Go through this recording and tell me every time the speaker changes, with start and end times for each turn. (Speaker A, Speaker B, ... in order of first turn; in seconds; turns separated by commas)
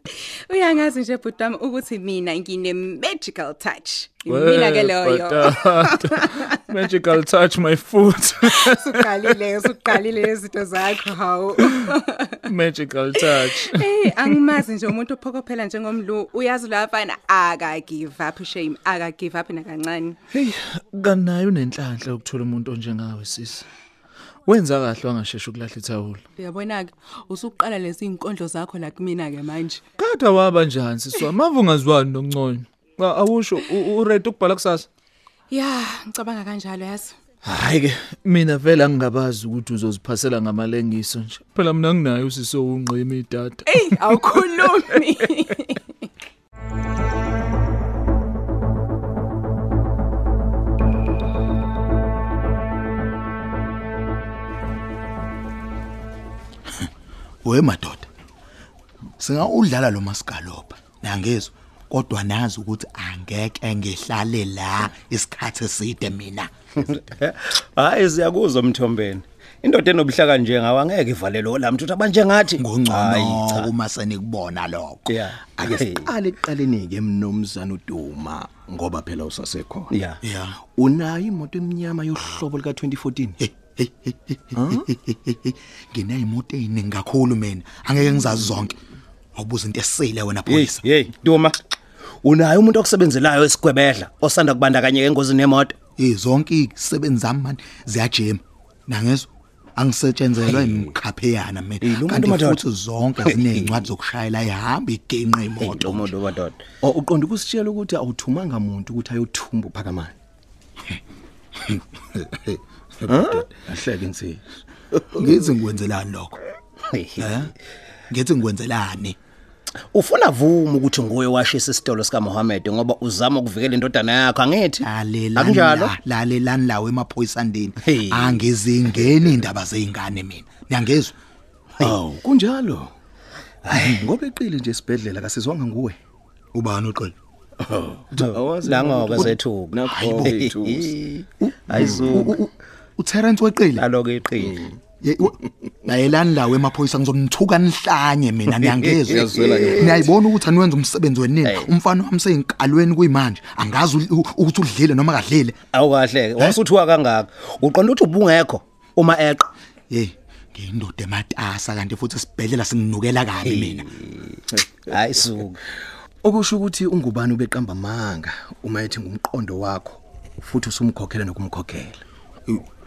Speaker A: 0.2-6.8, Speaker B: 4.3-9.3, Speaker A: 8.5-12.4, Speaker B: 11.6-11.9, Speaker B: 12.4-14.4, Speaker A: 13.2-20.2, Speaker B: 20.3-23.6, Speaker B: 24.5-26.2, Speaker A: 26.4-29.8, Speaker B: 30.0-34.9, Speaker A: 35.5-37.2, Speaker B: 37.4-44.9, Speaker A: 43.6-46.1, Speaker C: 57.4-58.1, Speaker C: 59.2-66.5, Speaker D: 66.8-73.7, Speaker C: 72.6-75.9, Speaker D: 75.1-76.1, Speaker E: 75.7-80.0, Speaker D: 79.9-80.2, Speaker C: 80.2-80.6, Speaker E: 80.7-83.4, Speaker C: 83.4-88.8, Speaker E: 84.6-84.8, Speaker C: 89.4-90.8, Speaker D: 90.5-91.6, Speaker D: 92.2-95.8, Speaker C: 96.0-106.1, Speaker D: 100.4-100.9, Speaker D: 101.8-102.6, Speaker D: 103.2-103.9, Speaker D: 105.6-106.7, Speaker E: 106.8-110.1, Speaker C: 111.6-113.5, Speaker E: 113.1-114.4, Speaker C: 115.1-116.4, Speaker D: 116.9-117.4, Speaker C: 117.2-117.5, Speaker C: 118.1-119.2, Speaker D: 119.9-125.9, Speaker C: 124.8-131.2, Speaker D: 127.8-129.1, Speaker D: 131.8-132.2, Speaker E: 131.8-132.9, Speaker D: 133.7-134.1, Speaker E: 133.8-136.0, Speaker C: 136.5-137.1, Speaker D: 137.7-142.4, Speaker E: 138.1-141.0, Speaker C: 139.9-140.5, Speaker C: 141.4-143.9, Speaker E: 141.7-142.2, Speaker D: 143.8-144.6, Speaker E: 144.4-144.8, Speaker C: 145.0-155.6, Speaker D: 148.6-150.1, Speaker E: 149.1-150.1, Speaker D: 151.4-151.7, Speaker D: 155.7-159.5, Speaker C: 159.9-163.9, Speaker D: 163.4-165.6, Speaker E: 166.2-172.0